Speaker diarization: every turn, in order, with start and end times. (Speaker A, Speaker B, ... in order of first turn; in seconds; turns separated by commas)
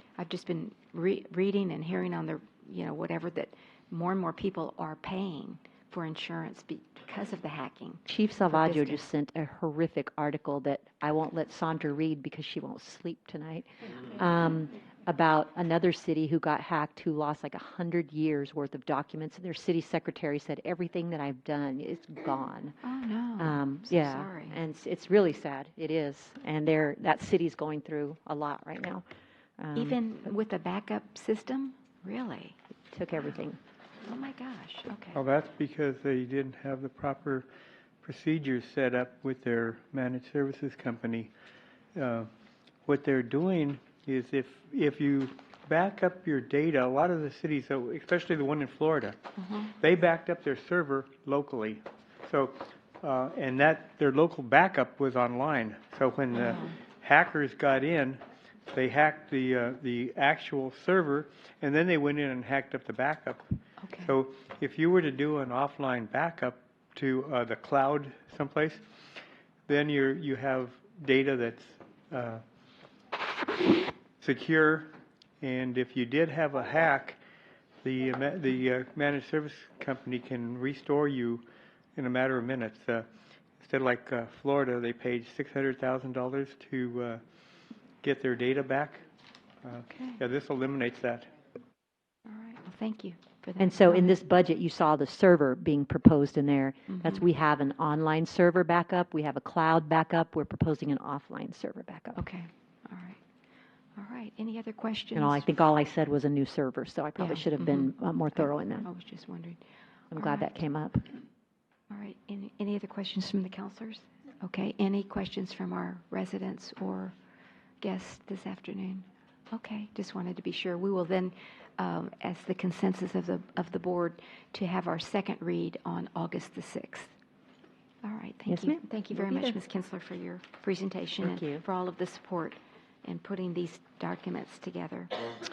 Speaker A: 0.2-9.1, Speaker B: 8.1-22.8, Speaker A: 22.8-24.6, Speaker B: 23.4-29.0, Speaker B: 29.6-30.0, Speaker A: 29.7-32.5, Speaker B: 32.9-33.6, Speaker A: 34.0-35.2, Speaker C: 35.1-37.5, Speaker C: 38.0-41.3, Speaker C: 41.9-42.3, Speaker C: 42.9-49.2, Speaker A: 49.4-49.7, Speaker C: 49.8-63.5, Speaker A: 56.3-56.8, Speaker A: 63.8-64.2, Speaker C: 64.0-68.8, Speaker C: 69.7-72.4, Speaker C: 74.2-77.2, Speaker C: 77.8-83.1, Speaker C: 83.6-87.2, Speaker C: 88.0-89.0, Speaker C: 89.6-91.3, Speaker A: 89.9-90.2, Speaker A: 92.2-94.2, Speaker B: 93.6-102.2, Speaker A: 96.9-97.2, Speaker A: 102.2-103.2, Speaker A: 104.0-105.4, Speaker B: 105.1-108.9, Speaker A: 107.2-109.6, Speaker B: 110.1-111.1, Speaker A: 110.1-110.5, Speaker A: 111.9-117.1, Speaker A: 117.8-127.1, Speaker A: 128.0-135.2, Speaker B: 128.5-129.6, Speaker B: 131.2-131.6